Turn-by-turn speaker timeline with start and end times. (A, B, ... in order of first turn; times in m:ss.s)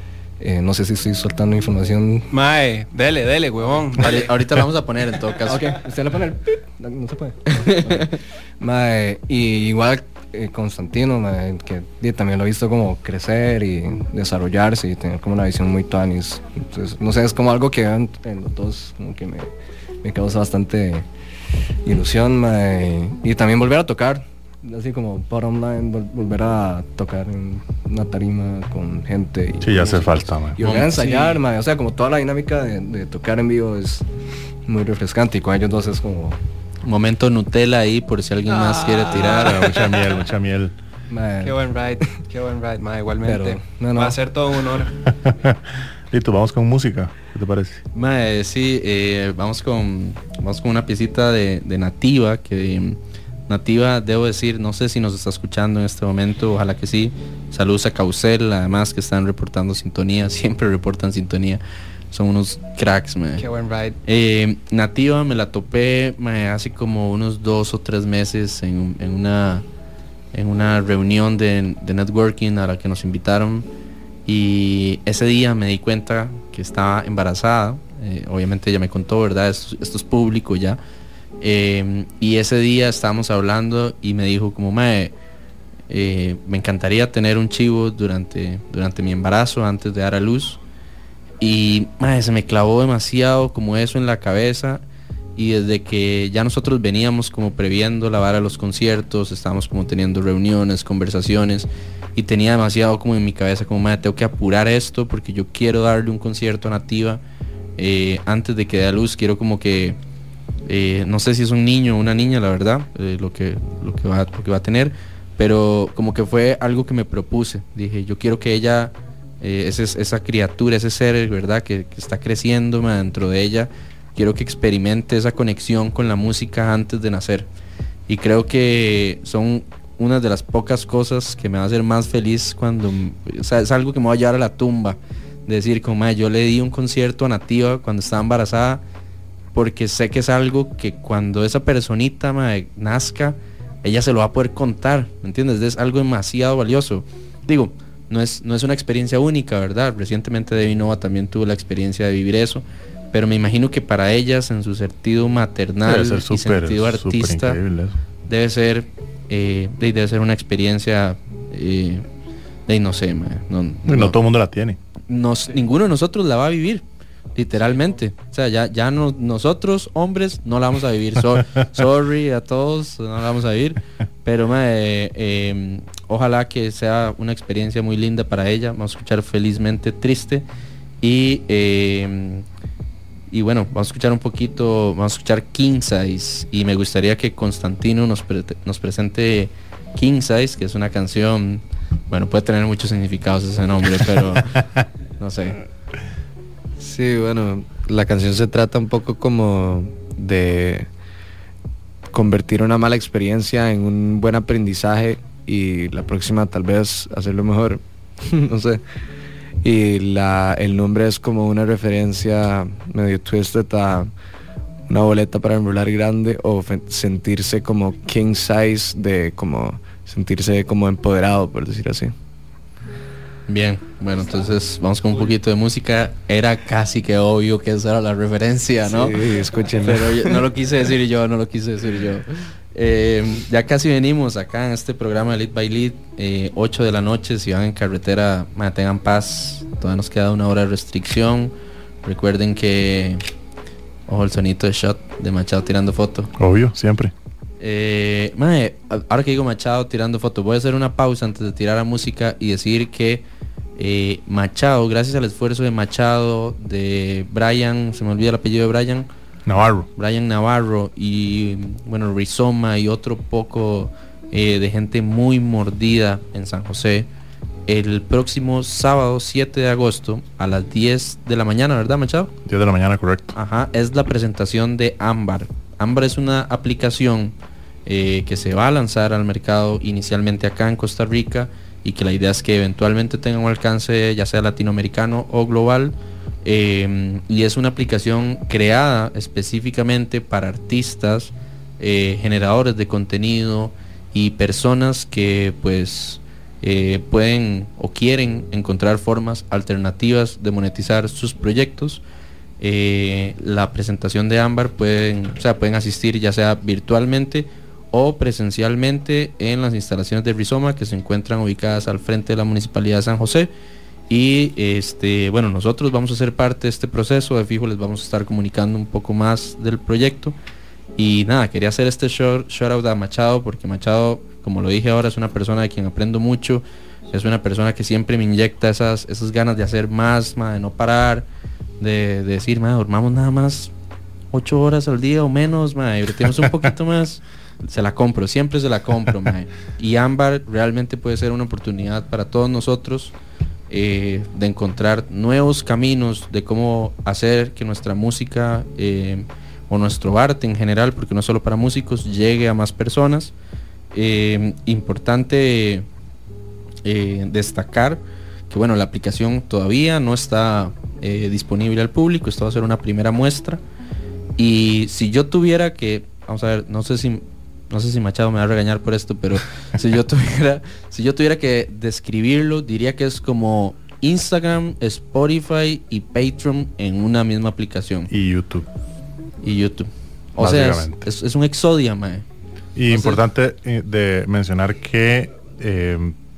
0:00.4-0:02.3 A
0:02.3-0:04.2 B
0:03.6-0:04.3 A
0:04.0-0:05.7 C
0:05.4-0:19.5 A
0:20.0-0:21.0 A
0:21.8-0:34.0 A
0:29.6-0:30.6 D
0:30.6-0:31.4 C
0:34.6-0:36.4 A
0:36.8-0:39.7 C
0:38.5-0:39.8 B
0:39.1-0:40.7 D
0:41.1-0:42.2 A
0:41.4-0:45.0 B
0:43.2-0:44.2 A
0:45.2-0:45.6 D
0:46.1-0:47.8 D
0:47.9-1:03.4 C
1:03.4-1:04.0 B
1:04.0-1:09.6 C
1:10.3-1:13.7 C
1:14.2-1:20.8 C
1:21.4-1:25.1 C
1:25.9-1:30.6 C
1:31.4-1:34.8 C
1:35.4-1:47.2 C
1:47.8-1:50.0 C
1:50.6-2:07.5 C
2:08.1-2:18.8 C
2:19.5-2:37.6 C
2:35.8-2:37.9 D
2:38.3-2:42.0 C
2:42.7-2:44.2 C
2:43.8-2:44.8 D
2:45.1-2:46.8 C
2:47.3-3:00.4 C
2:47.6-2:47.9 B
3:01.0-3:02.4 C
3:03.3-3:14.5 C
3:15.2-3:15.6 C
3:16.8-3:20.9 E
3:22.1-3:28.8 E
3:29.6-3:34.1 E
3:34.9-3:42.1 E
3:43.5-3:49.2 C
3:48.9-3:50.1 E
3:49.8-4:01.5 C
4:02.0-4:03.2 C
4:04.1-4:06.3 C
4:06.4-4:07.1 D
4:07.6-4:13.2 C
4:13.8-4:19.1 C
4:19.4-4:19.9 D
4:20.0-4:27.1 C
4:27.7-4:32.3 C
4:32.4-4:33.3 D
4:33.3-4:37.3 C
4:37.8-5:02.0 C
5:02.6-5:13.5 C
5:14.1-5:20.3 C
5:21.0-5:31.3 C
5:31.8-5:33.7 C
5:34.3-5:43.1 C
5:43.7-5:53.3 C
5:53.9-5:55.8 C
5:56.8-6:03.6 C
6:04.4-6:18.1 C
6:18.1-6:18.6 D
6:19.4-6:22.2 C
6:20.4-6:21.0 D
6:22.8-6:26.1 D
6:22.9-6:23.2 C